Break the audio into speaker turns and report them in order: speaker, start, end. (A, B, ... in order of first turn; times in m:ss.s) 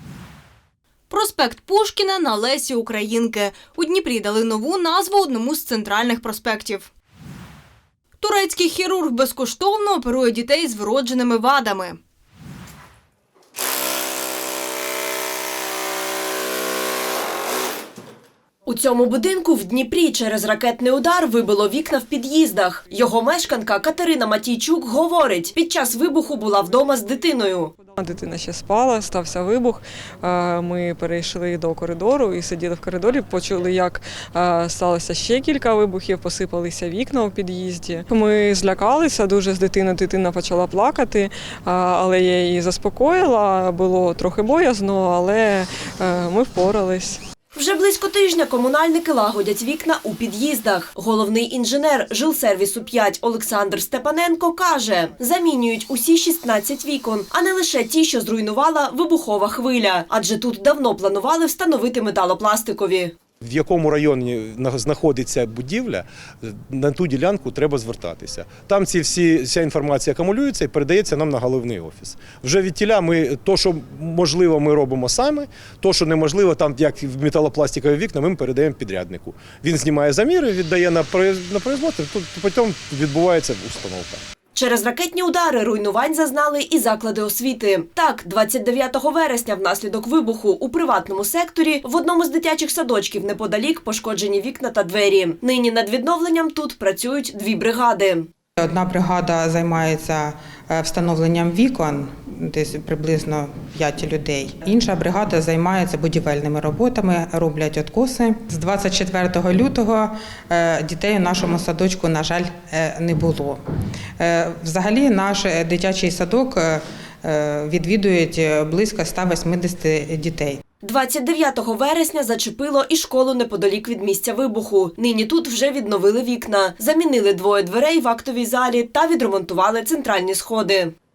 0:01.1-0:06.9 A
0:08.2-0:12.0 A
0:18.6-0:27.7 B
0:27.9-0:47.2 C
0:47.6-1:03.1 B
1:03.4-1:24.2 D
1:24.5-1:38.3 B
1:38.6-1:53.6 E
1:54.2-2:00.6 E
2:00.8-2:10.9 B